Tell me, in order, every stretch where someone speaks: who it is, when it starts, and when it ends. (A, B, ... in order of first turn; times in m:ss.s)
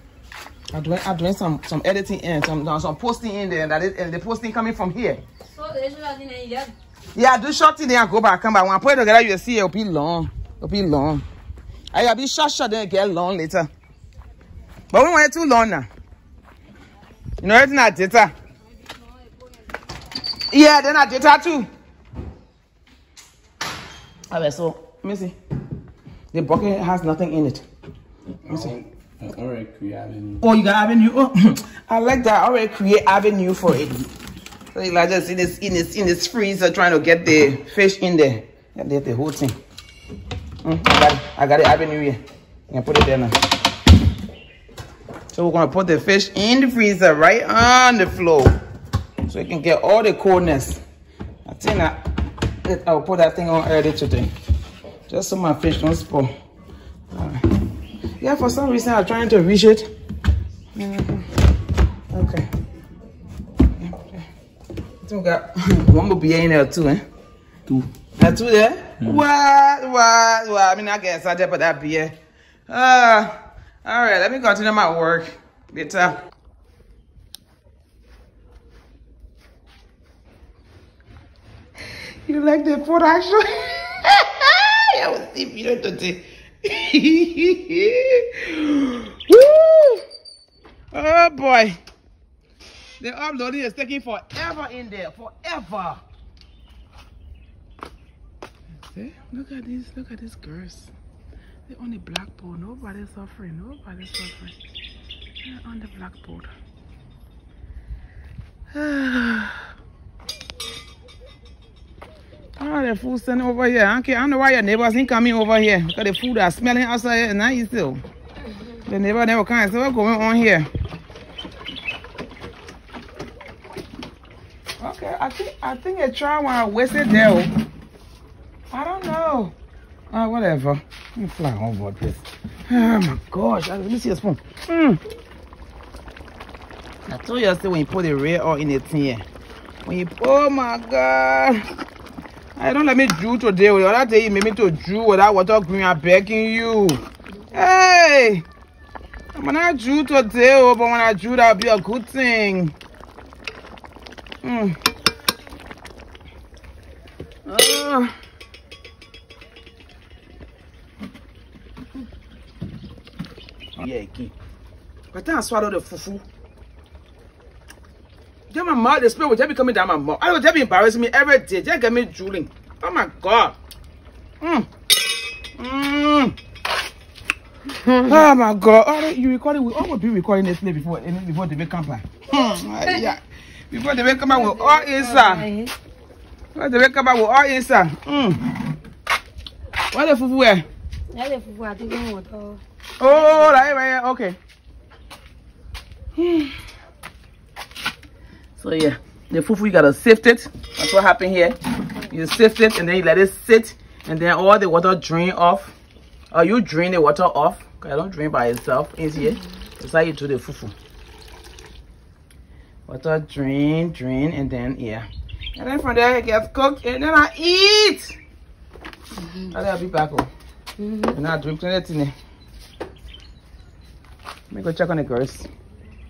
0:00.7-0:05.2 A
0:05.5-0:06.7 B
0:07.2-0:11.3 A
0:11.9-0:13.7 A
0:14.9-0:15.9 A
0:17.4-0:18.3 A
0:20.5-0:21.7 A
0:24.3-0:25.4 A
0:26.3-0:27.6 A
0:28.4-0:30.4 C
0:28.5-0:28.7 A
0:30.4-0:34.1 A
0:34.7-0:39.6 A
0:40.6-0:43.4 A
0:45.3-0:48.6 A
0:49.3-0:50.8 A
0:51.4-0:52.1 A
0:52.6-0:54.3 A
0:55.1-0:56.3 A
0:57.1-0:57.5 A
0:58.2-0:59.9 A
1:00.8-1:01.3 A
1:02.1-1:02.5 A
1:03.8-1:04.3 A
1:05.0-1:07.0 A
1:08.2-1:12.2 A
1:12.7-1:16.2 A
1:22.3-1:30.0 A
1:30.9-1:31.8 A
1:33.0-1:36.0 A
1:38.9-1:40.9 A
1:41.7-1:44.6 A
1:45.4-1:46.5 A
1:48.7-1:49.7 A
1:52.6-1:58.0 A
1:58.9-2:00.7 A
2:04.8-2:07.5 A
2:08.7-2:09.6 A
2:10.1-2:15.0 A
2:17.1-2:19.2 A
2:19.8-2:21.7 A
2:22.6-2:27.0 A
2:27.5-2:28.5 A
2:29.4-2:32.7 A
2:34.4-2:34.8 A
2:37.5-2:38.1 A
2:43.8-2:44.3 A
2:45.1-2:46.2 A
2:48.5-2:53.6 A
2:54.4-2:54.7 A
2:55.6-2:56.4 A
2:58.0-3:05.5 A
3:02.8-3:03.1 B
3:04.2-3:05.7 B
3:06.6-3:08.7 A
3:09.9-3:10.7 A
3:11.1-3:12.6 B
3:13.0-3:14.4 A
3:13.2-3:13.6 B
3:16.2-3:16.5 A
3:18.6-3:25.8 A
3:26.3-3:30.7 A
3:32.9-3:38.2 A
3:39.5-3:40.3 A
3:40.8-3:41.1 B
3:41.1-3:42.1 A
3:44.5-3:45.5 A